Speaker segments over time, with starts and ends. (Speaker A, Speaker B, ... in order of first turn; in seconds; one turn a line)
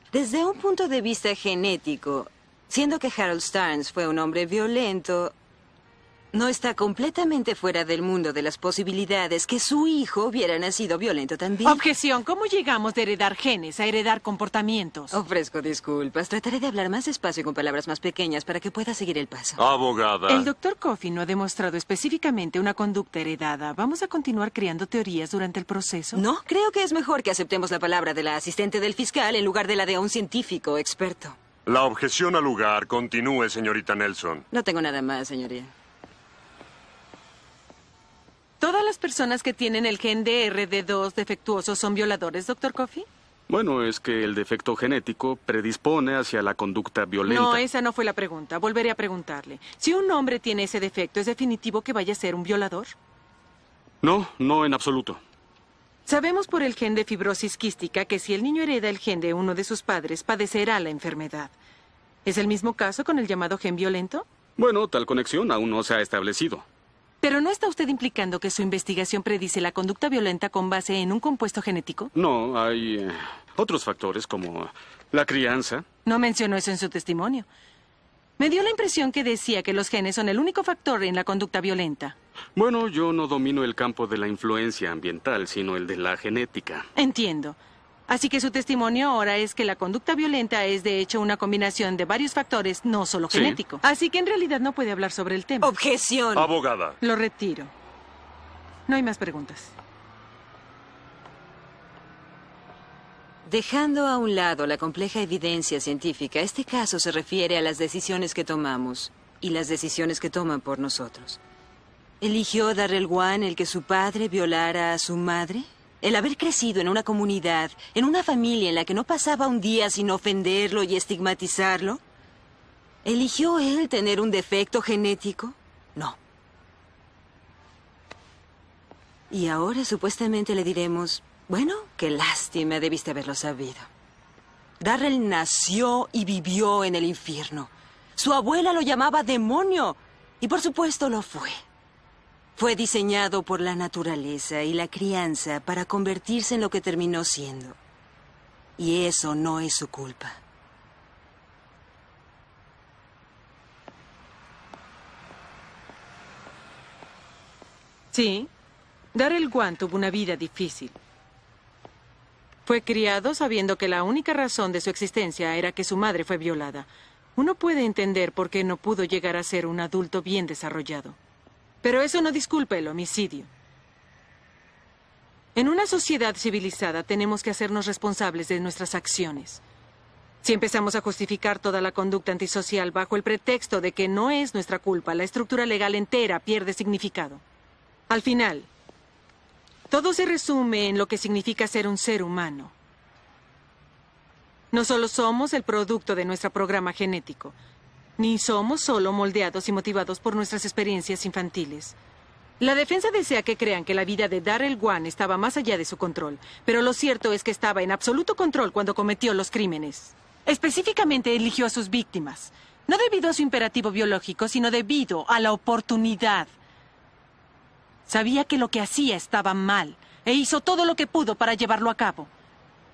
Speaker A: 0.1-5.3
Speaker A: 6.3-11.8
Speaker B: 11.6-15.2
Speaker A: 15.1-19.6
Speaker C: 19.6-20.5
Speaker B: 20.3-26.2
Speaker A: 26.1-31.4
Speaker C: 31.6-34.4
Speaker A: 34.5-35.7
Speaker B: 38.6-43.1
Speaker D: 43.5-47.6
Speaker B: 47.3-52.9
Speaker D: 54.0-55.2
Speaker B: 56.0-61.5
Speaker B: 62.2-64.2
Speaker D: 64.6-66.6
Speaker B: 67.2-72.1
Speaker D: 72.1-75.8
Speaker B: 76.0-77.5
Speaker B: 78.4-82.1
Speaker D: 82.5-86.9
Speaker B: 86.9-87.5
Speaker B: 88.1-95.7
Speaker D: 93.3-93.6
Speaker A: 95.6-96.5
Speaker C: 96.3-97.0
Speaker B: 97.0-97.7
Speaker B: 98.9-99.7
Speaker A: 103.5-111.4
Speaker A: 112.2-122.0
Speaker A: 123.0-126.2
Speaker A: 129.3-133.9
Speaker A: 134.8-141.6
Speaker A: 142.6-147.8
Speaker A: 148.8-150.3
Speaker B: 158.1-158.5
Speaker B: 159.1-160.9
Speaker B: 162.7-171.2
Speaker B: 171.8-173.5
Speaker B: 175.6-179.6
Speaker B: 180.4-187.4
Speaker B: 188.1-188.7
Speaker B: 189.9-192.7
Speaker B: 194.7-197.5
Speaker B: 198.2-201.9
Speaker B: 202.6-216.5
Speaker B: 218.1-222.3